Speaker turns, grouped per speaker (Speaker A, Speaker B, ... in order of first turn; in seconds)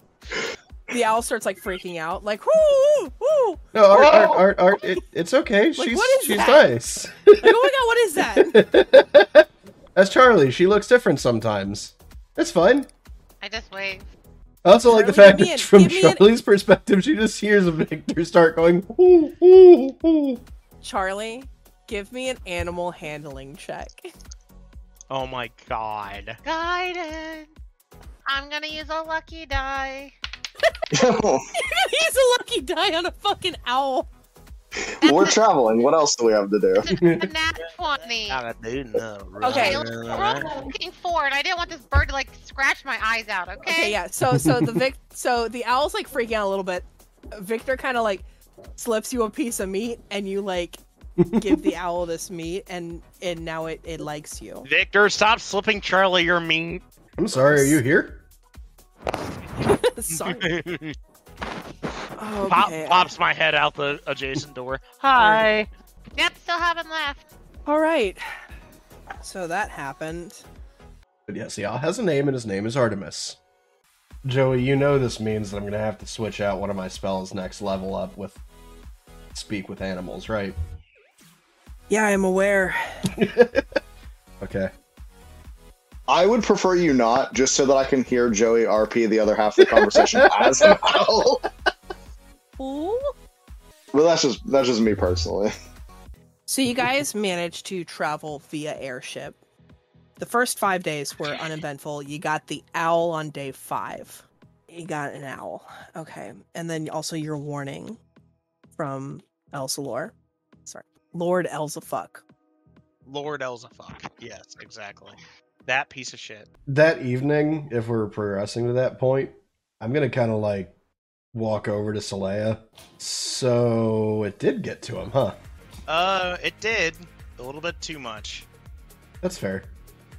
Speaker A: 0.9-4.4, 5.8-6.7, 7.4-8.6, 14.9-16.2, 20.8-24.1, 31.5-34.1, 39.4-39.8, 43.7-48.2, 48.8-50.8, 51.3-54.7, 57.4-57.8, 59.6-60.5, 62.2-63.1, 65.2-65.5, 67.7-68.2, 69.2-70.4, 81.9-83.1, 92.6-93.1, 96.5-99.4, 100.2-108.0, 108.8-110.1, 110.7-112.2
Speaker B: 3.7-7.6, 8.3-12.9, 14.6-20.4, 36.9-37.3, 44.3-44.8, 51.2-51.6, 57.2-58.2, 71.3-73.4, 74.2-78.4, 79.3-80.5, 83.1-83.7, 84.4-84.7, 89.6-91.0, 116.7-120.7, 121.3-125.4, 129.2-129.7
Speaker C: 13.4-14.1, 26.4-27.5, 28.2-30.1, 35.0-35.4, 36.8-38.4, 39.5-44.0, 66.2-67.2
Speaker D: 25.1-26.4, 37.6-40.6, 54.6-56.8, 60.1-61.0, 62.4-65.7, 113.0-116.5, 125.9-128.5
Speaker E: 30.9-31.5, 35.0-36.9, 86.1-91.4, 93.9-95.5